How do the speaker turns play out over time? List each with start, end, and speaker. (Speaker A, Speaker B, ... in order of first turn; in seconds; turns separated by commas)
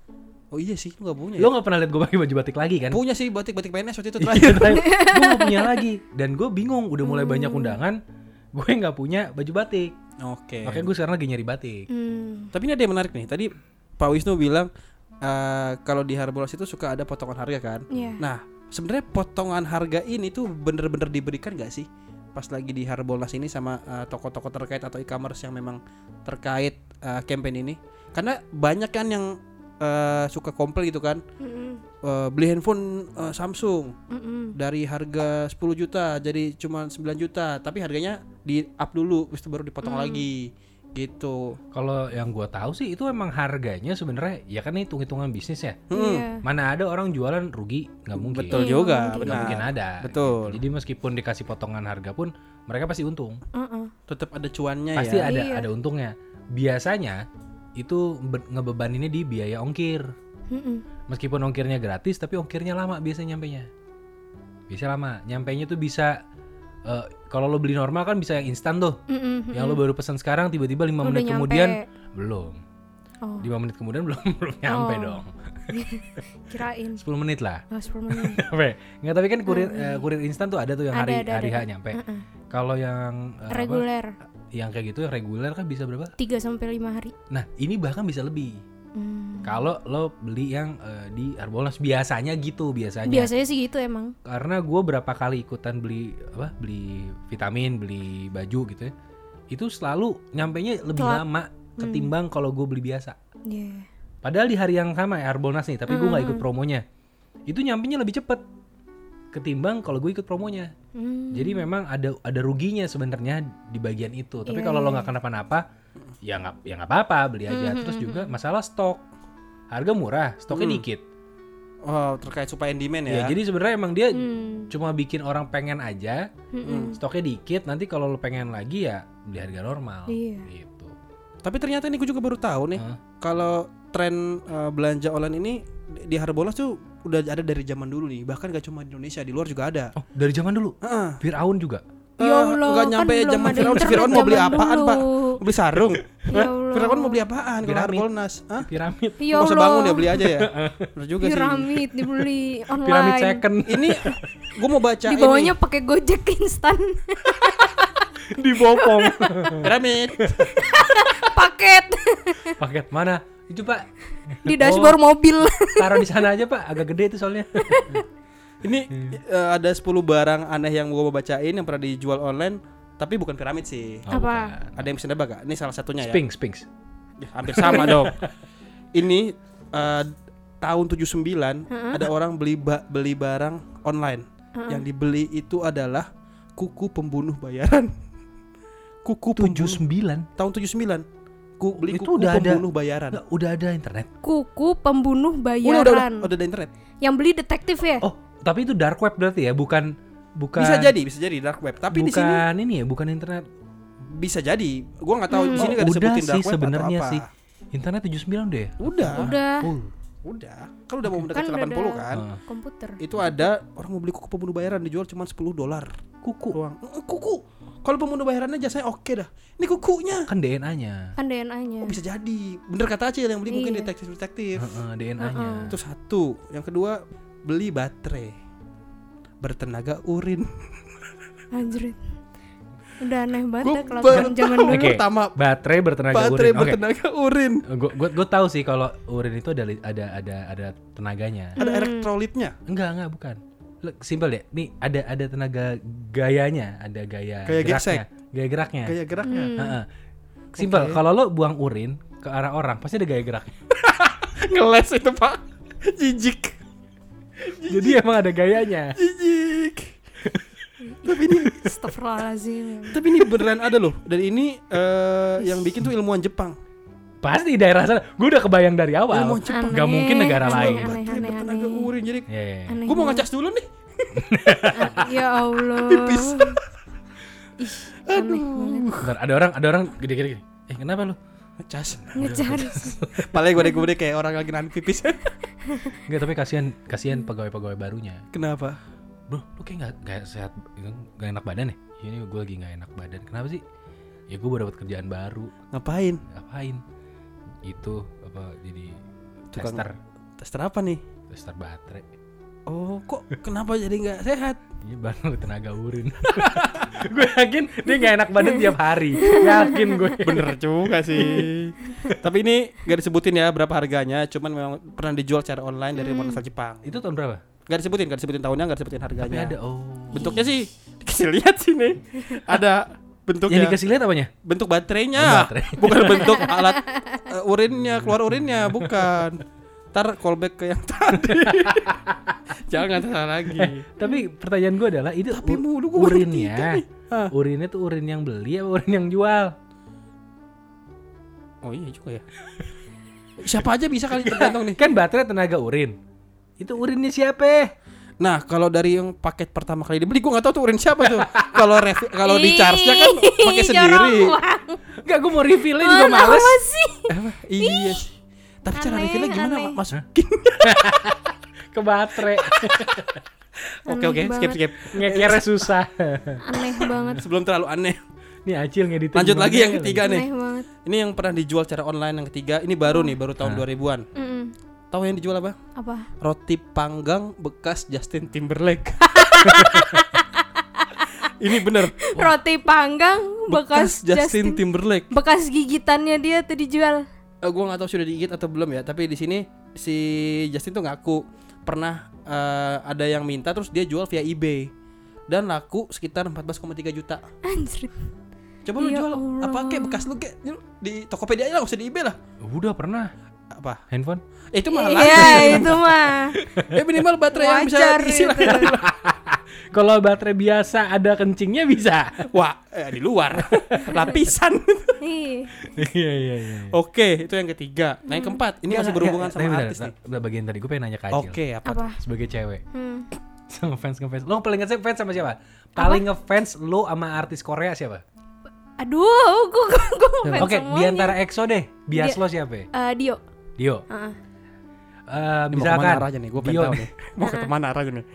Speaker A: 0.5-1.5, Speaker B: 1.4-3.0, Speaker A: 2.9-4.8, Speaker B: 4.2-8.0, Speaker C: 4.7-5.8, Speaker C: 7.0-7.8, Speaker B: 8.5-9.9, Speaker A: 10.2-10.9, Speaker B: 10.6-11.9, Speaker C: 11.9-12.5, Speaker A: 12.5-14.7, Speaker A: 15.2-31.2, Speaker C: 17.9-18.2, Speaker C: 31.4-31.8, Speaker A: 32.0-34.0, Speaker C: 34.1-34.5, Speaker A: 34.5-41.6, Speaker C: 39.8-40.2, Speaker B: 41.7-45.8, Speaker A: 45.9-46.3, Speaker C: 45.9-46.4, Speaker B: 46.4-53.4, Speaker A: 48.1-50.6, Speaker C: 48.5-49.6, Speaker C: 53.5-53.9, Speaker A: 54.1-55.3, Speaker B: 55.0-57.2, Speaker C: 55.2-55.7, Speaker B: 57.8-60.1, Speaker C: 60.5-60.8, Speaker B: 61.1-63.7, Speaker B: 64.7-66.2, Speaker B: 66.8-69.0, Speaker C: 69.1-69.8, Speaker B: 69.5-72.6, Speaker C: 71.0-71.8, Speaker C: 73.2-73.5, Speaker B: 73.4-75.3, Speaker C: 74.7-77.0, Speaker B: 77.0-82.0, Speaker C: 77.7-78.4, Speaker C: 79.5-80.1, Speaker C: 80.9-82.2, Speaker B: 82.5-83.9, Speaker C: 83.5-84.1, Speaker B: 84.5-86.1, Speaker C: 86.2-87.1, Speaker B: 87.3-88.6, Speaker C: 88.9-89.7, Speaker B: 89.4-93.3, Speaker C: 93.1-94.1, Speaker B: 94.2-98.9, Speaker B: 99.5-103.2, Speaker C: 101.0-101.2, Speaker C: 101.8-102.1, Speaker C: 103.5-103.8, Speaker B: 104.2-106.8, Speaker C: 105.9-106.4, Speaker B: 107.5-108.4, Speaker B: 109.3-110.7, Speaker C: 110.9-111.7, Speaker B: 111.3-115.6, Speaker C: 114.5-115.1, Speaker B: 116.2-119.0, Speaker C: 117.5-118.3, Speaker B: 119.7-121.0, Speaker A: 120.5-120.8, Speaker A: 121.8-123.4, Speaker B: 123.1-126.3, Speaker C: 124.1-124.7, Speaker C: 126.5-127.0, Speaker A: 126.6-127.0, Speaker B: 127.0-130.9, Speaker C: 130.1-130.5, Speaker A: 131.4-139.9, Speaker B: 139.9-141.8, Speaker A: 140.8-141.2, Speaker A: 142.2-148.7, Speaker C: 142.2-145.4, Speaker C: 146.3-147.2, Speaker B: 147.6-149.5, Speaker C: 149.2-150.2, Speaker A: 149.3-151.8, Speaker B: 150.2-150.9, Speaker C: 151.2-153.4, Speaker B: 152.8-154.2, Speaker A: 153.7-155.6, Speaker C: 155.1-157.7, Speaker B: 157.3-160.6, Speaker C: 158.6-159.6, Speaker A: 159.6-160.6, Speaker C: 160.6-162.6, Speaker B: 162.6-165.0, Speaker C: 164.4-166.2, Speaker B: 165.8-168.0, Speaker C: 167.6-168.0, Speaker A: 168.6-174.0, Speaker B: 168.9-169.2, Speaker B: 174.1-174.8, Speaker C: 174.1-174.6, Speaker A: 174.7-176.2, Speaker B: 176.0-176.7, Speaker A: 177.2-178.2, Speaker B: 177.5-178.3, Speaker C: 177.7-178.0, Speaker A: 178.9-187.9, Speaker C: 181.7-182.1, Speaker C: 184.6-184.8, Speaker A: 189.0-189.8, Speaker B: 189.3-190.3, Speaker A: 190.4-191.1, Speaker A: 191.6-193.2, Speaker B: 191.8-194.1, Speaker C: 194.2-196.3, Speaker A: 195.6-196.7, Speaker C: 197.0-198.0, Speaker B: 198.0-200.9, Speaker A: 200.6-202.4, Speaker B: 201.9-203.4, Speaker A: 204.0-207.2, Speaker C: 205.3-205.8, Speaker B: 205.5-209.9, Speaker A: 208.8-209.3, Speaker C: 209.1-209.7, Speaker A: 210.2-212.2, Speaker C: 211.3-213.0, Speaker B: 212.1-212.4, Speaker A: 213.0-215.9, Speaker B: 216.2-216.6, Speaker A: 216.5-220.3, Speaker B: 220.3-221.1, Speaker C: 221.2-222.0, Speaker A: 221.8-224.7, Speaker C: 223.5-223.9, Speaker B: 224.6-225.8, Speaker C: 225.2-225.7, Speaker A: 225.7-228.3, Speaker A: 229.4-230.8, Speaker C: 231.5-232.0, Speaker C: 233.0-234.9, Speaker A: 233.6-235.4, Speaker B: 234.1-236.8, Speaker A: 236.1-237.6, Speaker B: 237.7-241.6, Speaker A: 241.6-242.6, Speaker C: 241.6-242.1, Speaker B: 242.7-249.0, Speaker A: 247.4-248.0, Speaker A: 248.8-249.6, Speaker C: 249.2-249.8, Speaker B: 249.5-249.9, Speaker A: 250.5-251.0, Speaker B: 250.6-253.5, Speaker A: 253.7-256.6, Speaker A: 257.5-258.0, Speaker B: 257.6-259.0, Speaker A: 258.9-259.9, Speaker B: 260.2-260.5, Speaker C: 260.9-263.0, Speaker A: 261.0-261.7, Speaker A: 262.9-266.6, Speaker B: 267.2-271.0, Speaker A: 269.1-272.3, Speaker C: 269.5-271.9, Speaker B: 272.3-272.8, Speaker C: 272.7-273.2, Speaker A: 272.8-275.0, Speaker B: 274.1-275.1, Speaker C: 274.7-276.6, Speaker A: 275.7-276.6, Speaker C: 277.6-278.9, Speaker A: 278.1-279.1, Speaker B: 279.0-281.2, Speaker A: 281.6-282.4, Speaker C: 282.1-283.0, Speaker B: 282.1-283.3, Speaker A: 283.2-285.3, Speaker C: 285.6-286.0, Speaker B: 286.0-288.2, Speaker A: 288.3-288.8, Speaker B: 289.3-293.6, Speaker B: 294.3-295.5, Speaker A: 295.7-296.2, Speaker B: 296.3-296.8, Speaker B: 297.6-299.0, Speaker A: 299.5-299.8, Speaker B: 299.5-300.0, Speaker A: 300.4-301.0, Speaker B: 301.3-302.1, Speaker A: 302.7-304.6, Speaker B: 304.8-310.5, Speaker A: 306.3-306.9, Speaker C: 308.4-310.1, Speaker A: 310.2-316.9, Speaker C: 316.0-316.4, Speaker B: 316.8-317.4, Speaker A: 317.6-319.5, Speaker B: 319.2-320.4, Speaker A: 320.1-323.8, Speaker C: 320.1-320.4, Speaker B: 323.5-324.3, Speaker A: 324.4-332.0, Speaker B: 325.1-326.4, Speaker C: 326.4-327.2, Speaker B: 328.5-329.2, Speaker B: 331.2-332.4, Speaker A: 332.6-333.8, Speaker B: 333.5-339.5, Speaker A: 335.3-337.3, Speaker A: 341.6-342.2, Speaker A: 343.4-344.8, Speaker B: 344.1-345.9, Speaker B: 346.6-347.7, Speaker A: 348.2-354.4, Speaker B: 351.0-351.6, Speaker C: 352.2-354.8, Speaker B: 355.0-356.6, Speaker C: 355.8-358.0, Speaker A: 357.1-360.9, Speaker C: 358.7-359.8, Speaker B: 360.6-363.2, Speaker A: 362.4-362.9, Speaker A: 363.9-365.7, Speaker C: 363.9-364.6, Speaker B: 364.9-366.4, Speaker C: 366.4-367.2, Speaker A: 367.1-368.0, Speaker B: 368.4-370.0, Speaker A: 369.1-370.3, Speaker C: 370.0-370.7, Speaker A: 370.8-374.1, Speaker C: 372.9-373.1, Speaker C: 374.1-374.5, Speaker A: 374.9-375.6, Speaker C: 375.8-376.1, Speaker A: 376.2-379.7, Speaker C: 379.1-381.2, Speaker B: 379.5-379.8, Speaker A: 381.4-381.9, Speaker C: 381.8-387.1, Speaker A: 383.5-385.1, Speaker A: 387.4-394.7, Speaker A: 395.3-397.2, Speaker C: 397.4-397.9, Speaker A: 398.6-402.2, Speaker C: 398.8-400.1, Speaker B: 402.4-403.1, Speaker A: 403.5-403.8, Speaker B: 403.9-404.2, Speaker A: 404.5-405.9, Speaker C: 404.7-406.4, Speaker B: 405.0-405.8, Speaker B: 406.3-406.8, Speaker A: 406.6-408.9, Speaker C: 407.3-408.7, Speaker B: 408.4-412.3, Speaker A: 412.3-415.0, Speaker B: 413.4-414.1, Speaker C: 415.0-415.5, Speaker B: 415.6-416.8, Speaker A: 416.7-419.9, Speaker C: 418.1-418.4, Speaker B: 418.7-421.4, Speaker A: 421.1-421.9, Speaker C: 421.6-422.0, Speaker B: 422.0-422.6, Speaker C: 422.7-423.1, Speaker B: 423.5-428.0, Speaker C: 425.8-426.0, Speaker C: 428.8-431.2, Speaker B: 430.4-432.7, Speaker C: 431.9-432.2, Speaker C: 432.7-433.2, Speaker B: 433.6-433.8, Speaker C: 433.9-434.2, Speaker B: 435.1-436.9, Speaker A: 435.5-438.1, Speaker C: 437.2-437.5